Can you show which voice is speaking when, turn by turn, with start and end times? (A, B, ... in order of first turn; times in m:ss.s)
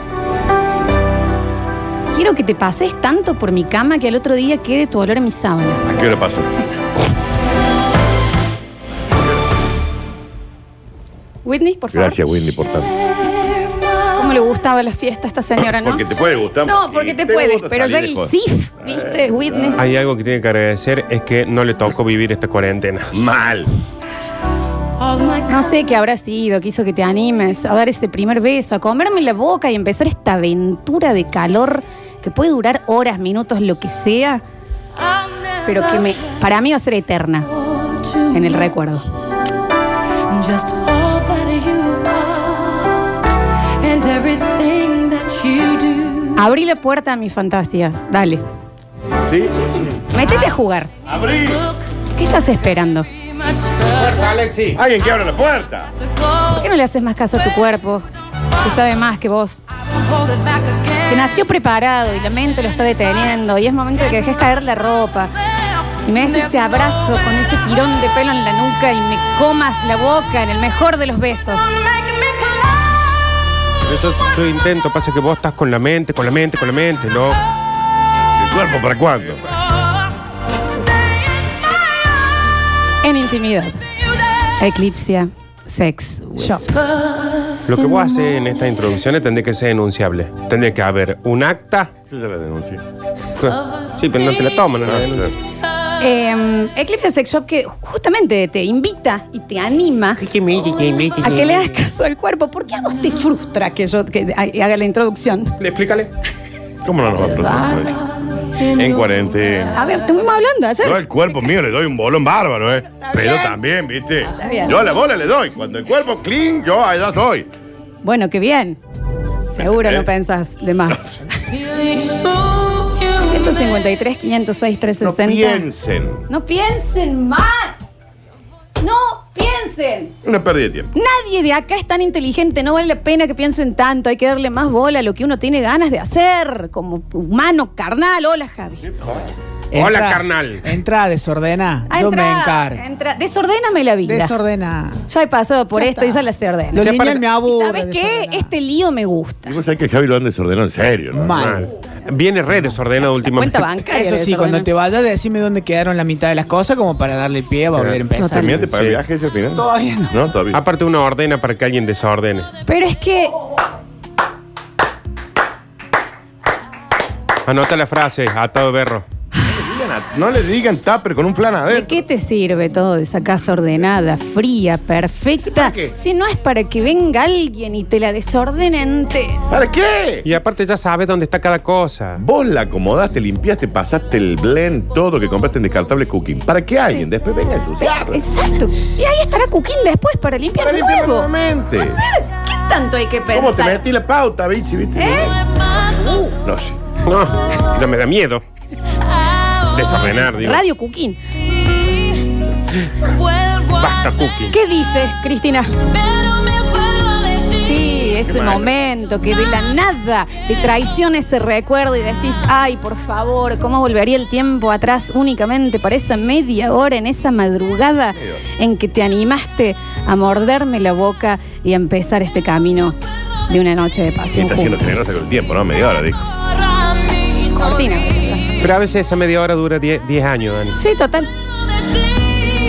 0:02.1-0:05.9 A
0:05.9-0:06.5 B
0:11.4-0:12.2 A
0:11.9-0:12.9 B
0:14.0-0:16.0 A
0:15.6-0:19.8 B
0:16.6-0:19.8 A
0:19.8-0:23.1 C
0:23.1-0:23.7 B
0:25.4-0:34.4 A
0:35.6-0:37.5 A
0:38.0-0:39.0 A
0:40.3-0:43.0 D
0:43.8-0:46.1 D
0:46.2-0:48.4 A
0:49.3-0:49.8 B
0:50.1-0:50.9 A
0:51.1-0:51.6 B
0:52.1-0:53.1 A
0:53.9-0:54.8 C
0:54.7-0:55.9 B
0:56.5-0:58.0 A
0:58.6-0:59.6 A
1:01.0-1:05.3 A
1:06.0-1:11.7 A
1:13.8-1:17.4 C
1:18.4-1:19.4 B
1:23.0-1:23.8 A
1:24.6-1:26.7 A
1:27.6-1:31.9 C
1:32.1-1:32.8 B
1:33.4-1:35.3 C
1:34.8-1:35.2 B
1:36.0-1:40.3 A
1:40.2-1:41.7 C
1:41.2-1:45.6 A
1:45.6-1:46.1 C
1:46.8-1:48.0 B
1:48.6-1:49.7 B
1:49.7-1:51.0 A
1:50.8-1:57.5 B
1:53.0-1:53.6 A
1:54.3-1:54.8 A
1:58.0-1:58.8 A
1:59.5-2:01.4 A
1:59.6-2:00.1 B
2:03.0-2:05.7 A
2:05.0-2:06.2 B
2:06.3-2:07.8 A
2:08.8-2:10.1 A
2:10.2-2:10.9 B
2:10.9-2:18.9 A
2:19.0-2:19.3 B
2:19.7-2:22.8 E
2:19.8-2:20.6 C
2:21.9-2:24.4 A
2:24.0-2:25.0 E
2:25.0-2:29.6 A
2:25.7-2:28.5 E
2:29.5-2:31.4 B
2:31.1-2:31.7 E
2:31.4-2:33.6 C
2:33.0-2:34.7 A
2:33.7-2:38.6 E
2:37.7-2:40.6 B
2:38.2-2:38.6 A
2:38.7-2:39.0 C
2:39.6-2:40.1 E
2:40.5-2:42.5 C
2:42.6-2:43.4 A
2:47.4-2:49.0 C
2:49.4-2:52.0 B
2:51.7-2:59.4 A
2:55.4-2:55.9 B
2:59.5-3:00.2 B
3:00.2-3:02.2 C
3:02.2-3:08.2 B
3:07.8-3:11.3 A
3:10.6-3:12.0 B
3:11.8-3:13.8 A
3:13.3-3:15.4 B
3:15.0-3:16.3 A
3:16.4-3:16.8 B
3:17.0-3:18.4 C
3:19.7-3:20.6 C
3:20.3-3:21.2 A
3:23.7-3:24.6 C
3:24.5-3:25.7 A
3:27.4-3:43.0 A
3:28.2-3:28.7 B
3:38.1-3:38.4 B
3:43.5-3:45.1 A
3:44.3-3:46.3 B
3:47.5-3:48.5 A
3:48.6-3:50.8 C
3:50.7-3:51.3 A